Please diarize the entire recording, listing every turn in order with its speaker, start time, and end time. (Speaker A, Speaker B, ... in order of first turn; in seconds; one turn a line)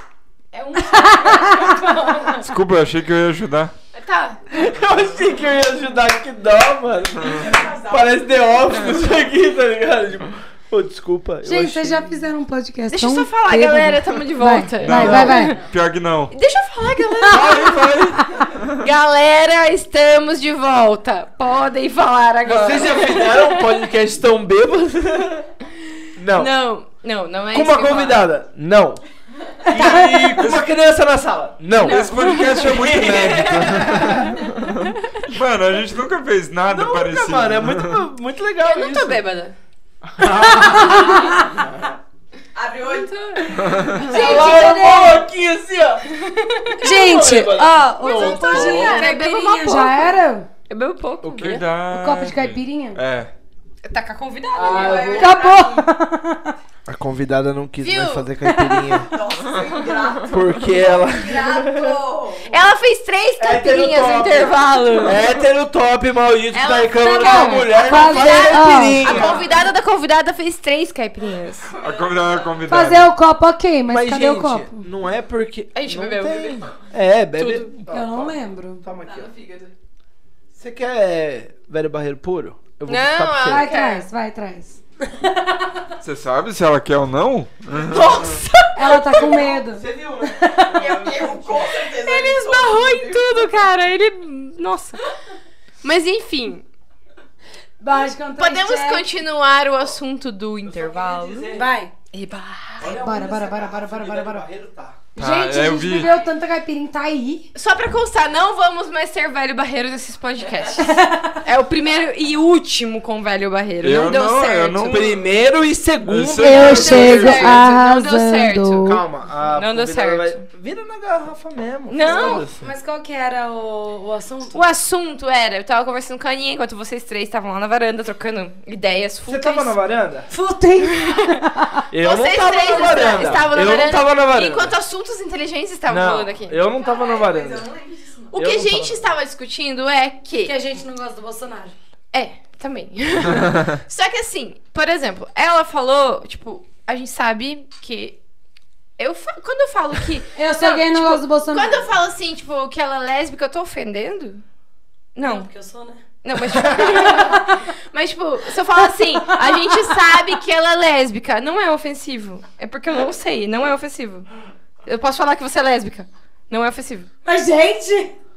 Speaker A: 0.5-2.5
Speaker B: 0.8-1.8
Speaker C: 2.4-3.7
Speaker A: 3.9-4.4
Speaker D: 4.5-12.3
Speaker A: 8.7-9.2
Speaker B: 11.4-15.6
Speaker A: 12.9-15.6
Speaker C: 14.8-16.3
Speaker A: 16.3-18.0
Speaker D: 17.2-18.3
Speaker B: 18.2-18.4
Speaker A: 18.8-23.8
Speaker D: 22.4-25.5
Speaker D: 26.2-26.5
Speaker A: 26.3-28.3
Speaker D: 27.5-29.0
Speaker D: 29.6-34.4
Speaker A: 29.7-30.4
Speaker C: 29.9-30.6
Speaker A: 31.8-32.9
Speaker C: 31.8-38.0
Speaker D: 36.6-39.2
Speaker A: 38.6-39.5
Speaker D: 40.0-42.0
Speaker B: 40.2-41.5
Speaker E: 42.5-43.5
Speaker A: 42.8-43.5
Speaker C: 43.5-44.0
Speaker D: 43.6-46.0
Speaker B: 44.1-45.2
Speaker E: 44.2-44.7
Speaker A: 44.2-44.6
Speaker A: 46.2-46.8
Speaker B: 46.8-50.5
Speaker D: 46.8-49.0
Speaker A: 48.0-50.1
Speaker A: 50.7-51.4
Speaker D: 51.2-51.6
Speaker C: 51.4-53.3
Speaker B: 51.9-53.0
Speaker A: 53.8-55.2
Speaker D: 54.5-55.4
Speaker E: 54.6-55.8
Speaker B: 55.1-56.5
Speaker D: 56.9-59.1
Speaker A: 57.8-58.3
Speaker B: 58.4-59.0
Speaker E: 59.1-62.6
Speaker D: 60.3-62.0
Speaker A: 62.5-65.3
Speaker D: 63.4-69.4
Speaker A: 66.5-71.7
Speaker B: 67.0-69.2
Speaker E: 69.1-69.4
Speaker C: 71.8-73.1
Speaker B: 72.7-74.8
Speaker D: 73.9-79.3
Speaker A: 75.7-76.6
Speaker A: 77.4-77.7
Speaker B: 77.9-78.8
Speaker E: 79.0-79.7
Speaker D: 80.5-83.7
Speaker A: 82.8-84.0
Speaker B: 83.5-85.7
Speaker C: 86.0-88.4
Speaker D: 87.7-91.9
Speaker B: 88.7-91.0
Speaker E: 90.8-93.3
Speaker A: 91.1-95.0
Speaker A: 95.8-96.6
Speaker B: 97.8-99.0
Speaker A: 98.4-101.6
Speaker D: 100.6-101.7
Speaker B: 101.5-101.9
Speaker A: 102.1-102.9
Speaker D: 102.8-105.1
Speaker B: 102.8-104.5
Speaker B: 105.1-107.5
Speaker C: 105.2-106.1
Speaker A: 107.5-115.2
Speaker B: 110.8-111.4
Speaker C: 113.8-115.1
Speaker D: 114.8-117.6
Speaker C: 116.0-117.6
Speaker B: 116.4-119.0
Speaker A: 116.6-119.0
Speaker D: 118.8-122.7
Speaker A: 119.5-120.4
Speaker A: 121.9-122.4
Speaker B: 122.0-124.6
Speaker A: 124.5-129.8
Speaker D: 129.3-130.3
Speaker B: 130.3-131.8
Speaker A: 130.9-131.2
Speaker D: 131.9-134.8
Speaker A: 132.0-136.6
Speaker D: 135.9-137.7
Speaker E: 136.8-138.3
Speaker A: 138.3-140.5
Speaker D: 138.3-139.1
Speaker B: 140.4-141.7
Speaker A: 142.1-148.2
Speaker A: 149.0-154.4
Speaker B: 150.3-151.8
Speaker A: 155.1-155.5
Speaker B: 155.2-156.0
Speaker A: 156.2-164.3
Speaker B: 156.6-157.7
Speaker B: 158.8-160.1
Speaker A: 164.8-167.1
Speaker B: 167.2-168.1